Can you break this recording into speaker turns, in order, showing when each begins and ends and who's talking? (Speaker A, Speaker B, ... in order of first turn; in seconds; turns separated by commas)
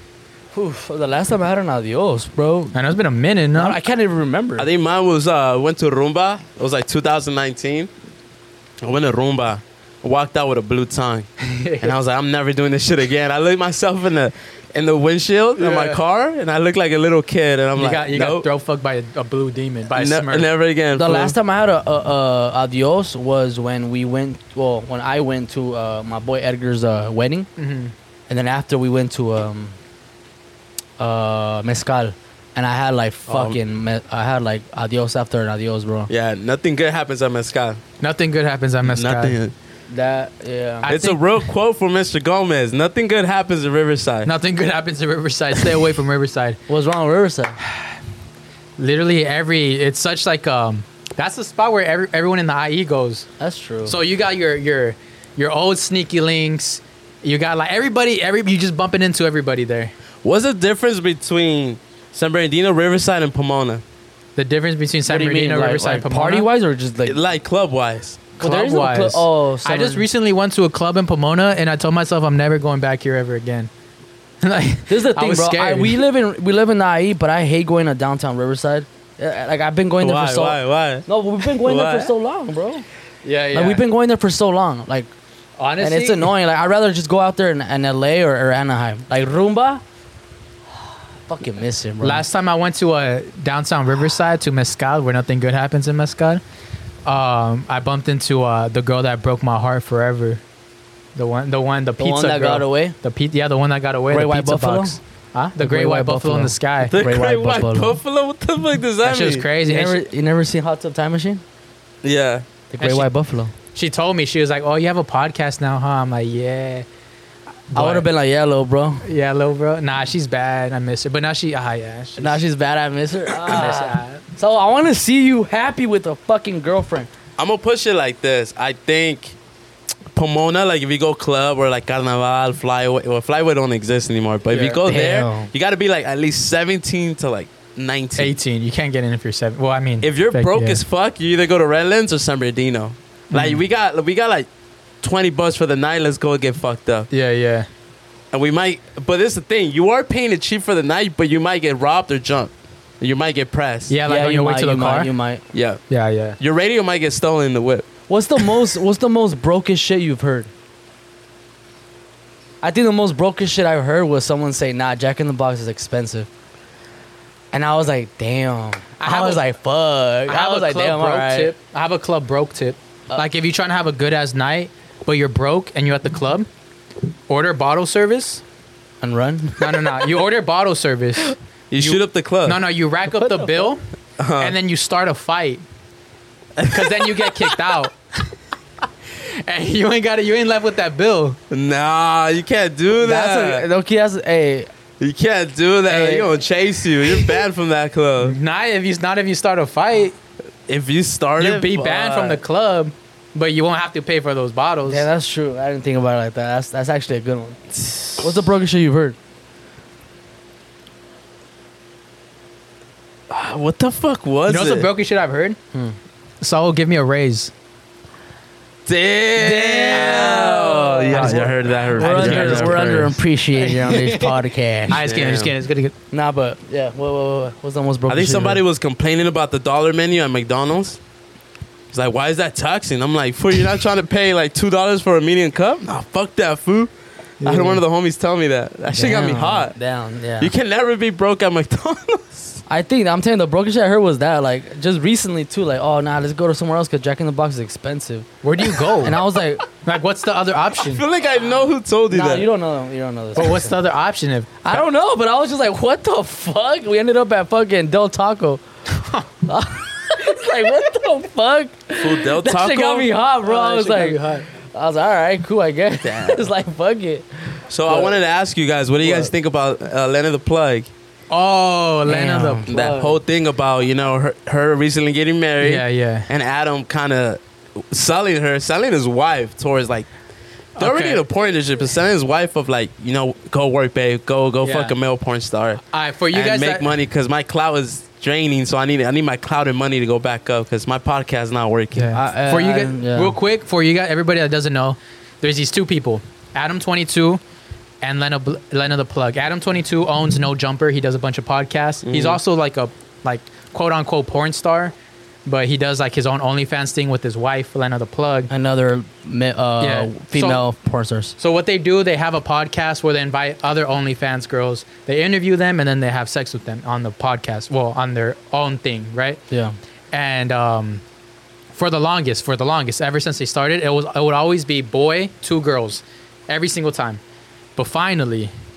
Speaker A: 0.5-2.8, Speaker B: 2.7-3.8, Speaker A: 3.5-4.7, Speaker C: 4.6-7.9, Speaker C: 8.8-11.3, Speaker B: 11.4-11.9, Speaker C: 11.8-18.5, Speaker B: 15.6-16.0, Speaker B: 17.8-20.5, Speaker C: 19.9-21.4, Speaker A: 20.9-27.5, Speaker B: 27.6-27.9, Speaker A: 28.3-29.8, Speaker A: 31.0-36.1, Speaker C: 33.3-33.6, Speaker C: 36.1-37.8, Speaker B: 38.0-39.4, Speaker C: 38.8-39.5, Speaker A: 39.9-40.9, Speaker B: 40.8-41.2, Speaker C: 40.9-44.3, Speaker B: 44.2-46.6, Speaker A: 46.7-47.6, Speaker B: 48.8-53.3, Speaker A: 53.4-54.0, Speaker B: 53.9-59.9, Speaker C: 60.2-63.8, Speaker B: 64.4-66.5, Speaker A: 65.1-67.2, Speaker C: 67.0-68.3, Speaker A: 68.4-70.1, Speaker B: 68.4-73.7, Speaker B: 74.4-76.0, Speaker A: 74.9-82.8, Speaker C: 80.0-82.1, Speaker B: 83.2-83.8, Speaker A: 83.5-85.1, Speaker B: 85.6-86.3, Speaker A: 85.8-89.8, Speaker A: 91.3-92.2, Speaker B: 92.0-96.4, Speaker B: 97.0-100.4, Speaker B: 101.2-107.0, Speaker A: 102.0-102.9, Speaker A: 104.1-105.0, Speaker A: 105.6-107.9, Speaker C: 106.9-109.5, Speaker B: 109.0-110.0, Speaker A: 109.7-111.4, Speaker C: 112.0-112.5, Speaker A: 112.7-113.5, Speaker B: 112.8-113.1, Speaker B: 113.7-116.8, Speaker B: 117.7-118.1, Speaker A: 117.7-119.0, Speaker B: 119.0-122.4, Speaker A: 122.2-127.1, Speaker B: 123.5-124.2, Speaker C: 127.4-129.3, Speaker C: 130.1-138.3, Speaker B: 134.5-134.8, Speaker A: 134.9-135.5, Speaker B: 138.2-140.8, Speaker C: 140.0-144.5, Speaker B: 143.3-143.6, Speaker C: 145.0-147.1, Speaker B: 147.1-147.7, Speaker C: 148.3-153.9, Speaker B: 153.9-155.1, Speaker A: 154.1-155.4, Speaker C: 155.5-155.8, Speaker B: 155.9-156.4, Speaker C: 156.4-157.9, Speaker A: 158.1-160.5, Speaker A: 162.6-166.3, Speaker A: 167.5-171.5, Speaker B: 169.0-169.4, Speaker B: 170.3-176.5, Speaker B: 177.3-178.4, Speaker A: 179.0-180.0, Speaker B: 179.6-183.8, Speaker C: 181.7-182.6, Speaker A: 183.1-183.7, Speaker C: 184.2-184.6, Speaker B: 184.4-185.6, Speaker C: 186.6-187.4, Speaker B: 186.7-187.9, Speaker B: 189.4-191.4, Speaker C: 191.5-193.7, Speaker A: 193.0-194.7, Speaker C: 195.0-198.4, Speaker A: 195.9-196.3, Speaker B: 198.2-200.1, Speaker C: 200.7-202.4, Speaker B: 201.4-205.1, Speaker A: 204.9-209.2, Speaker C: 213.3-214.9, Speaker B: 214.5-215.6, Speaker B: 216.4-217.5, Speaker C: 218.9-223.2, Speaker A: 219.4-225.1, Speaker B: 219.9-220.5, Speaker B: 221.1-225.9, Speaker C: 224.9-225.5, Speaker A: 226.1-228.6, Speaker C: 228.1-231.0, Speaker C: 231.9-236.9, Speaker C: 237.4-239.7, Speaker B: 237.4-237.7, Speaker A: 237.5-237.8, Speaker A: 238.9-240.5, Speaker C: 240.4-242.6, Speaker A: 242.7-248.3, Speaker B: 248.4-249.2, Speaker A: 248.8-249.7, Speaker B: 249.8-251.0, Speaker C: 250.8-252.5, Speaker A: 252.1-253.8, Speaker B: 253.3-254.6, Speaker A: 254.6-258.6, Speaker A: 259.5-268.2, Speaker C: 262.0-263.1, Speaker B: 263.4-264.5, Speaker C: 266.0-266.5, Speaker C: 267.7-270.9, Speaker A: 269.0-269.3, Speaker B: 271.3-272.7, Speaker A: 272.1-273.1, Speaker C: 272.7-280.1, Speaker B: 275.6-276.3, Speaker C: 280.8-285.8, Speaker B: 280.8-281.2, Speaker B: 284.6-284.9, Speaker B: 285.9-286.9, Speaker C: 286.3-292.1, Speaker B: 291.9-297.4, Speaker A: 292.1-293.4, Speaker B: 298.0-304.9, Speaker C: 302.0-302.4, Speaker B: 305.5-308.5, Speaker A: 308.5-311.3, Speaker B: 309.8-310.6, Speaker B: 311.4-319.4, Speaker A: 319.5-319.8, Speaker B: 320.1-321.0, Speaker B: 321.7-327.2, Speaker B: 327.8-328.5